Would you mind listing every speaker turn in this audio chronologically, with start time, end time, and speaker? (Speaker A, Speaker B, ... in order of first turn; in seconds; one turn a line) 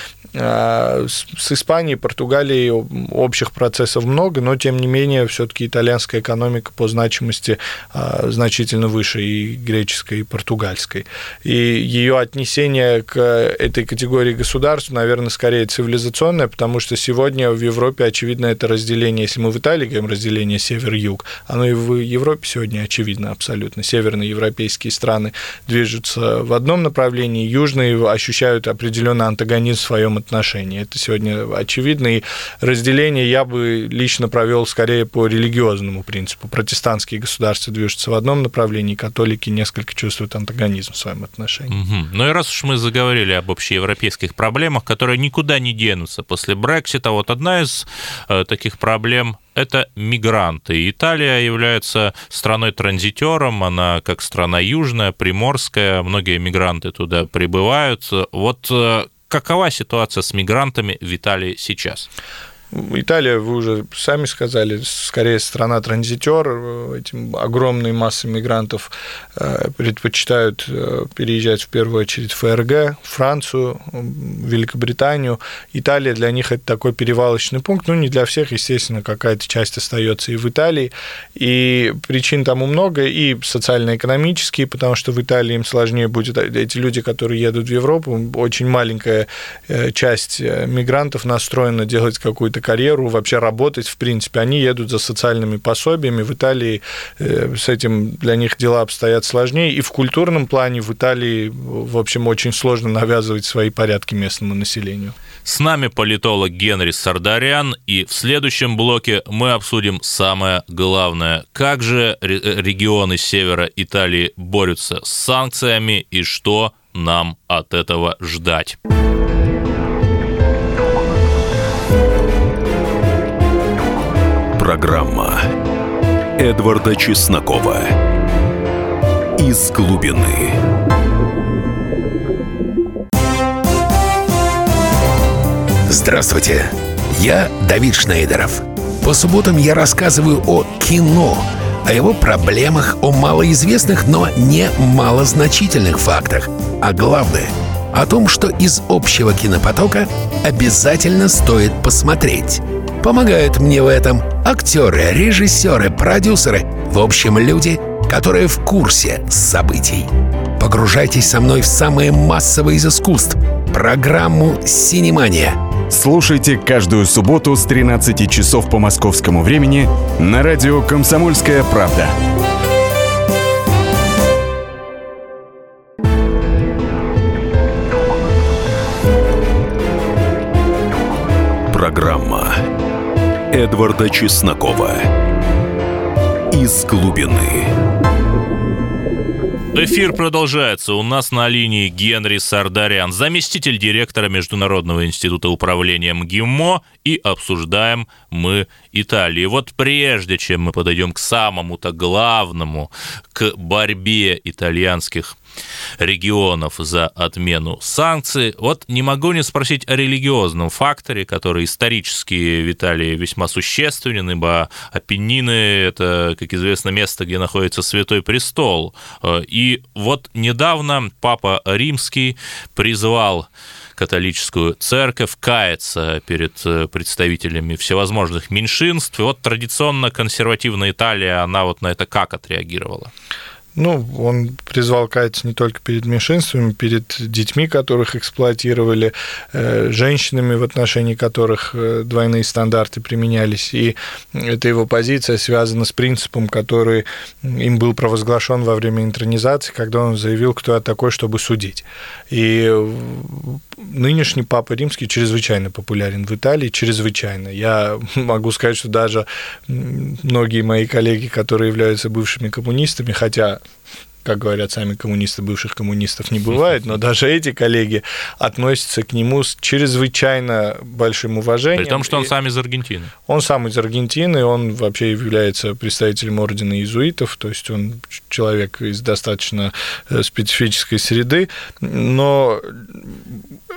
Speaker A: 0.3-41.8
Speaker B: 41.7-62.1
Speaker A: 62.7-105.2
Speaker B: 105.5-118.8
Speaker C: 124.6-125.5
Speaker C: 126.4-128.0
Speaker C: 129.4-130.6
Speaker D: 135.9-165.6
Speaker E: 165.9-172.2
Speaker C: 181.7-182.6
Speaker C: 183.5-185.1
Speaker C: 186.5-187.7
Speaker B: 189.8-205.4
Speaker B: 206.0-233.1
Speaker A: 233.8-263.6
Speaker A: 264.2-272.3
Speaker B: 271.8-273.1
Speaker A: 273.3-283.4